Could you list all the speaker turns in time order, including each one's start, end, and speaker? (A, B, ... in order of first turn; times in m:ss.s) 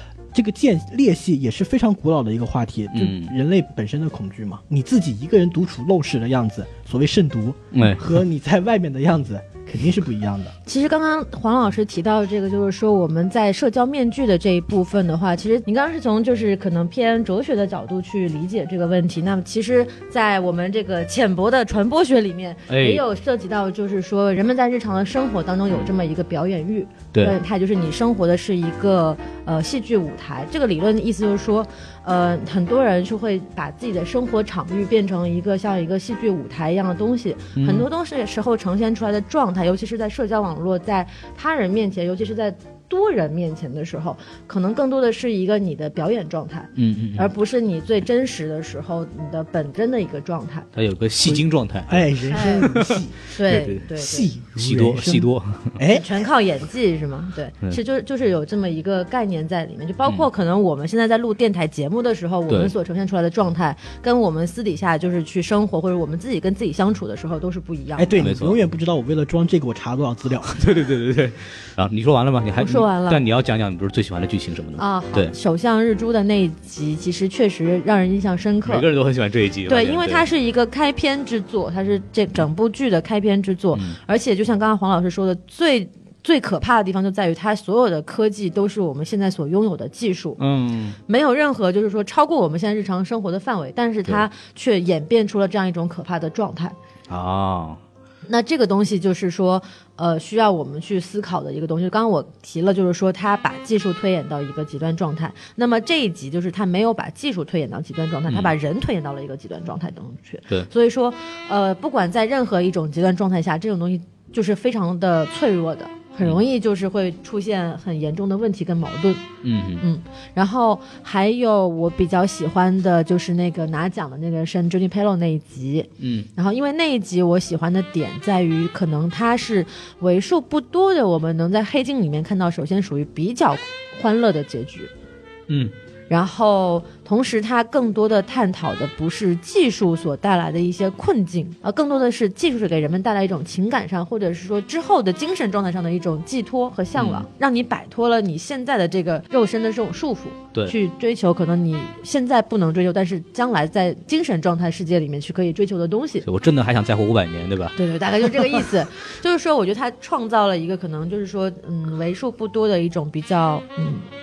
0:00.3-0:10.5 A
0:02.9-0:03.3 B
0:07.7-0:08.2 B
0:10.6-0:50.7 C
0:22.7-0:23.0 B
0:37.6-0:37.9 B
0:46.8-0:47.3 B
0:50.7-0:53.8 B
0:51.2-0:53.2 A
0:52.3-0:52.7 C
0:53.2-0:54.3 C
0:53.9-0:56.1 A
0:54.6-0:55.8 B
0:55.9-1:08.2 C
1:08.0-1:10.6 A
1:08.2-1:08.6 B
1:10.4-1:15.3 B
1:12.6-1:13.2 C
1:14.8-1:18.8 C
1:18.6-1:20.2 B
1:19.6-1:30.4 C
1:30.4-1:31.0 B
1:31.1-1:36.8 C
1:37.1-1:37.8 B
1:38.2-1:59.3 C
1:48.3-1:48.5 B
1:59.4-1:59.8 B
1:59.8-2:14.9 C
2:06.0-2:06.3 B
2:16.1-2:36.2 C
2:27.0-2:27.2 B
2:36.2-2:37.8 B
2:37.8-2:44.1 C
2:38.3-2:38.6 B